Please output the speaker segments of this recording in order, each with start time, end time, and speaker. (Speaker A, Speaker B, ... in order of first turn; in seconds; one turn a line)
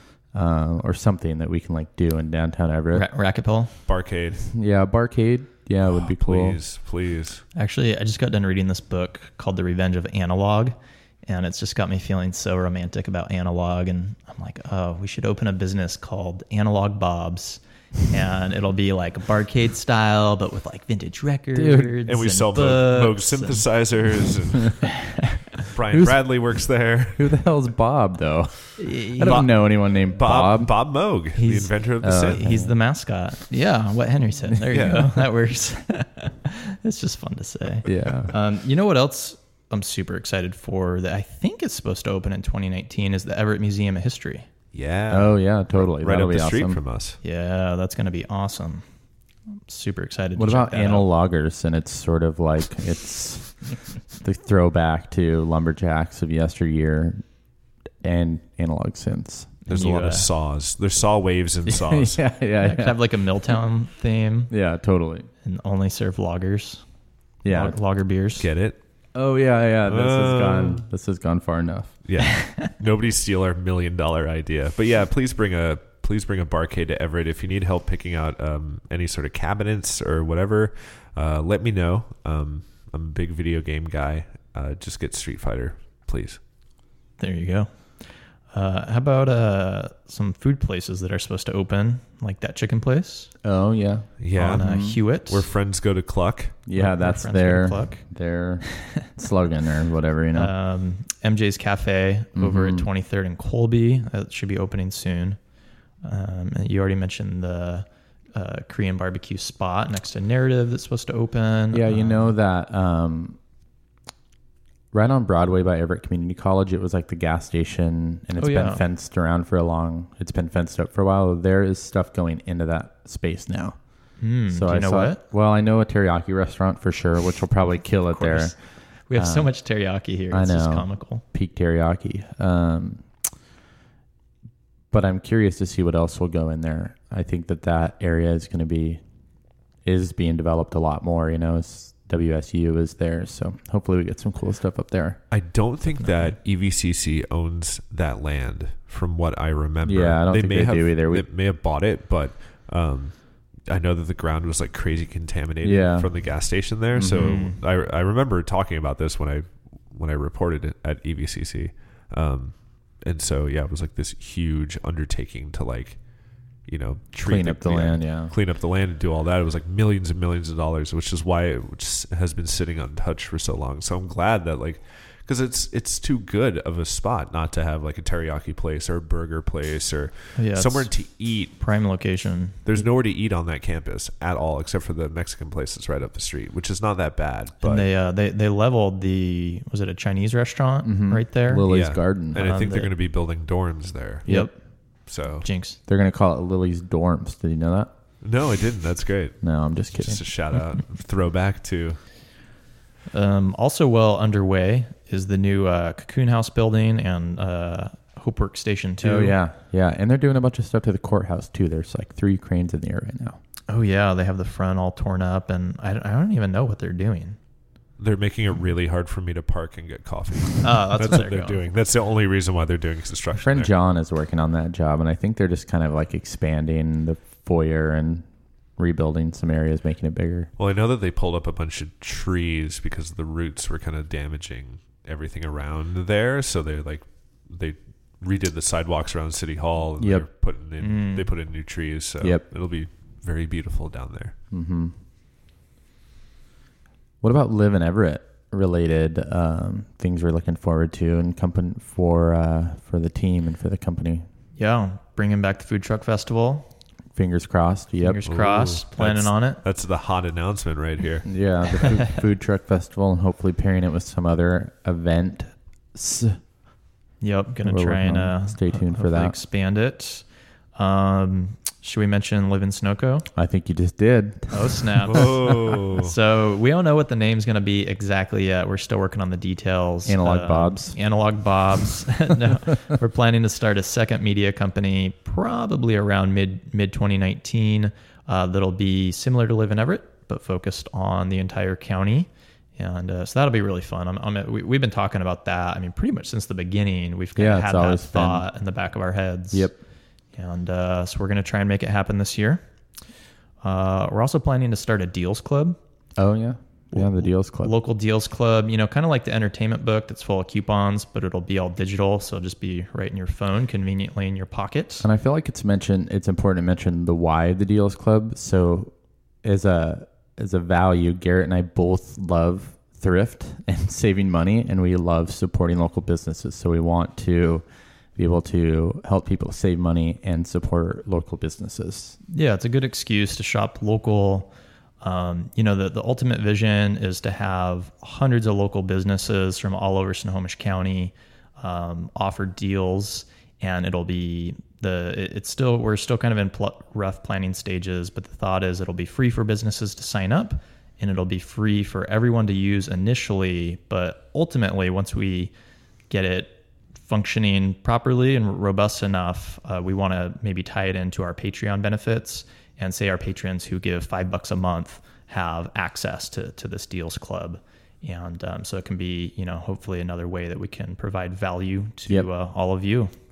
Speaker A: 0.3-3.0
Speaker B: 2.9-3.7
Speaker C: 3.9-4.5
Speaker A: 4.5-6.6
Speaker C: 5.9-7.4
Speaker B: 7.5-23.6
Speaker A: 21.5-21.9
Speaker C: 22.0-24.9
Speaker C: 25.6-27.3
Speaker A: 25.9-26.2
Speaker A: 27.1-30.7
Speaker B: 28.8-29.5
Speaker C: 29.2-32.4
Speaker B: 31.3-44.5
Speaker A: 32.0-32.7
Speaker A: 34.5-34.9
Speaker C: 34.7-35.1
Speaker A: 37.9-38.3
Speaker C: 44.7-47.2
Speaker A: 45.1-46.8
Speaker B: 47.2-48.8
Speaker B: 49.7-51.1
Speaker A: 50.4-57.2
Speaker A: 58.0-59.6
Speaker B: 59.6-60.3
Speaker C: 59.7-62.2
Speaker A: 61.7-63.0
Speaker B: 62.6-64.5
Speaker A: 64.5-65.3
Speaker B: 65.4-66.8
Speaker A: 67.4-67.8
Speaker B: 67.5-68.5
Speaker C: 68.4-68.8
Speaker A: 69.1-71.9
Speaker C: 69.8-70.8
Speaker C: 72.0-86.4
Speaker B: 72.4-72.7
Speaker B: 87.2-87.7
Speaker B: 88.5-93.3
Speaker A: 93.4-95.0
Speaker C: 94.2-94.6
Speaker B: 94.3-95.5
Speaker C: 95.2-96.6
Speaker A: 96.7-100.5
Speaker B: 96.7-98.0
Speaker B: 100.3-105.4
Speaker A: 102.3-102.9
Speaker B: 106.0-112.3
Speaker A: 111.7-113.4
Speaker A: 114.9-123.8
Speaker B: 118.4-118.8
Speaker B: 124.2-125.2
Speaker A: 124.5-128.6
Speaker B: 128.1-128.6
Speaker B: 129.1-131.2
Speaker A: 129.1-129.5
Speaker A: 130.3-133.1
Speaker A: 134.9-139.0
Speaker A: 139.8-145.2
Speaker C: 145.3-166.0
Speaker B: 146.0-146.3
Speaker A: 149.8-151.3
Speaker A: 155.6-156.1
Speaker A: 156.9-157.4
Speaker B: 157.0-157.6
Speaker C: 166.7-181.5
Speaker A: 167.2-168.3
Speaker B: 180.3-180.9
Speaker B: 181.6-182.6
Speaker C: 182.6-187.9
Speaker B: 187.6-191.7
Speaker A: 190.8-192.4
Speaker C: 191.7-194.3
Speaker B: 192.3-192.9
Speaker A: 194.2-194.5
Speaker B: 194.3-194.5
Speaker C: 195.1-195.5
Speaker B: 195.4-195.8
Speaker A: 195.9-197.9
Speaker C: 198.2-199.4
Speaker A: 199.4-200.2
Speaker C: 199.9-202.0
Speaker B: 203.1-209.3
Speaker A: 209.0-213.4
Speaker B: 213.7-217.4
Speaker C: 218.0-223.7
Speaker B: 220.6-221.6
Speaker A: 223.4-228.2
Speaker A: 228.8-230.5
Speaker C: 230.6-244.3
Speaker A: 240.0-240.2
Speaker B: 240.8-241.3
Speaker A: 244.5-244.9
Speaker A: 247.2-254.2
Speaker B: 254.6-256.7
Speaker A: 257.1-258.2
Speaker B: 258.0-259.6
Speaker C: 258.3-261.3
Speaker A: 261.2-266.4
Speaker B: 267.2-270.2
Speaker A: 267.6-269.3
Speaker B: 270.8-273.2
Speaker A: 273.3-275.2
Speaker B: 274.5-299.7
Speaker C: 275.1-276.1
Speaker A: 280.1-281.0
Speaker A: 297.4-298.4
Speaker A: 299.5-299.8
Speaker B: 300.3-302.6
Speaker B: 303.6-305.8
Speaker A: 306.2-307.7
Speaker B: 306.9-315.1
Speaker A: 315.0-327.6
Speaker A: 328.1-332.1
Speaker B: 332.3-355.5
Speaker B: 356.1-373.1